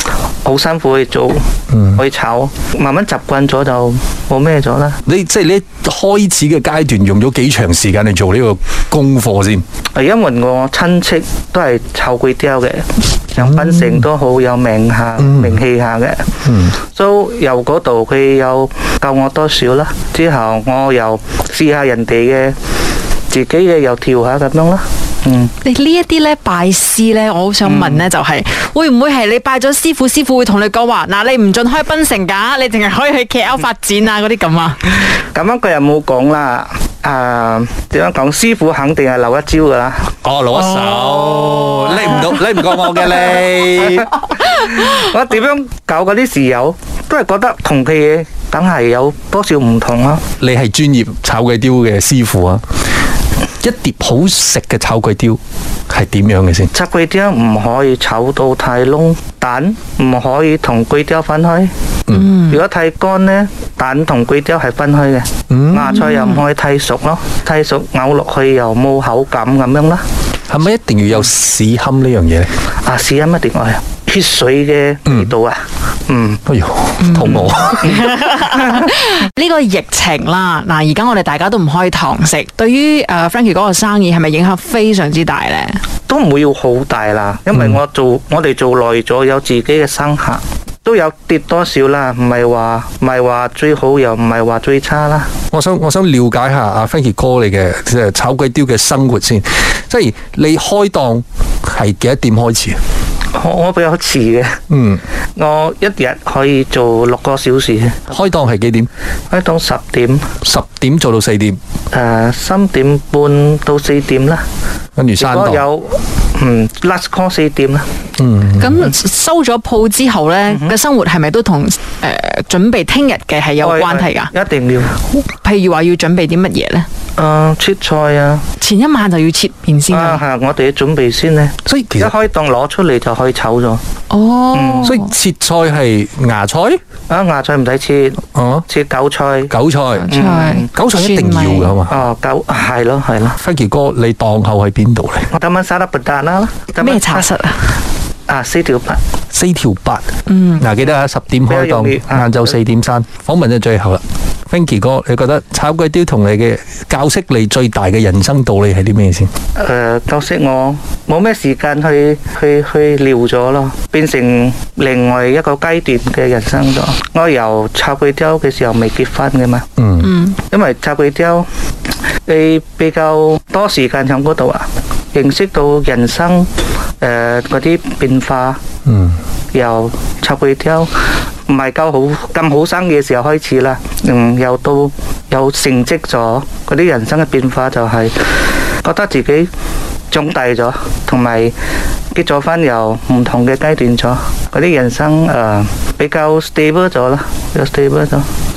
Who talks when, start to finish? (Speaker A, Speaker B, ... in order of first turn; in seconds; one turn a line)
Speaker A: 0.4-1.4
Speaker B: 1.7-2.0
Speaker A: 1.9-5.0
Speaker B: 5.0-9.6
Speaker A: 9.9-16.3
Speaker B: 13.4-14.0
Speaker B: 15.2-15.6
Speaker B: 16.4-16.8
Speaker A: 16.8-22.6
Speaker A: 23.3-25.5
Speaker C: 25.6-35.0
Speaker A: 27.6-28.1
Speaker A: 35.2-40.1
Speaker B: 40.2-44.1
Speaker C: 40.5-42.3
Speaker A: 41.9-42.4
Speaker A: 43.0-50.2
Speaker B: 50.4-52.6
Speaker B: 53.6-55.4
Speaker B: 55.9-56.7
Speaker A: 56.7-61.7
Speaker B: 62.1-62.3
Speaker C: 62.1-62.6
Speaker A: 62.5-70.0
Speaker B: 65.5-66.0
Speaker C: 65.9-66.4
Speaker B: 70.5-72.5
Speaker A: 72.8-76.4
Speaker B: 76.5-78.0
Speaker C: 77.0-85.8
Speaker A: 77.2-77.5
Speaker A: 86.1-95.3
Speaker B: 95.5-102.8
Speaker A: 103.3-104.6
Speaker B: 104.7-105.0
Speaker A: 105.4-108.2
Speaker B: 108.1-108.9
Speaker A: 109.3-110.3
Speaker B: 110.4-111.6
Speaker A: 111.9-114.4
Speaker B: 115.0-115.6
Speaker A: 115.2-117.9
Speaker B: 118.2-118.9
Speaker C: 118.6-124.3
Speaker A: 120.5-120.7
Speaker A: 123.6-125.0
Speaker C: 125.2-126.9
Speaker A: 127.2-128.4
Speaker C: 128.6-130.2
Speaker A: 129.9-133.8
Speaker B: 131.7-132.1
Speaker C: 134.1-135.1
Speaker A: 134.5-134.9
Speaker B: 134.8-136.8
Speaker A: 137.1-139.5
Speaker B: 138.3-138.7
Speaker B: 139.5-142.0
Speaker C: 140.0-141.7
Speaker A: 140.1-140.7
Speaker A: 141.9-143.3
Speaker B: 143.4-145.3
Speaker A: 145.3-147.3
Speaker C: 146.8-147.6
Speaker A: 148.3-149.0
Speaker B: 149.3-150.0
Speaker C: 150.3-150.6
Speaker B: 150.6-159.3
Speaker A: 151.5-152.5
Speaker A: 159.6-169.7
Speaker B: 169.8-170.1
Speaker C: 170.0-170.4
Speaker A: 170.5-171.5
Speaker A: 172.2-176.5
Speaker A: 177.0-178.6
Speaker B: 178.8-179.2
Speaker A: 179.5-180.9
Speaker A: 181.5-188.3
Speaker A: 188.8-189.5
Speaker A: 190.1-191.5
Speaker A: 192.1-198.3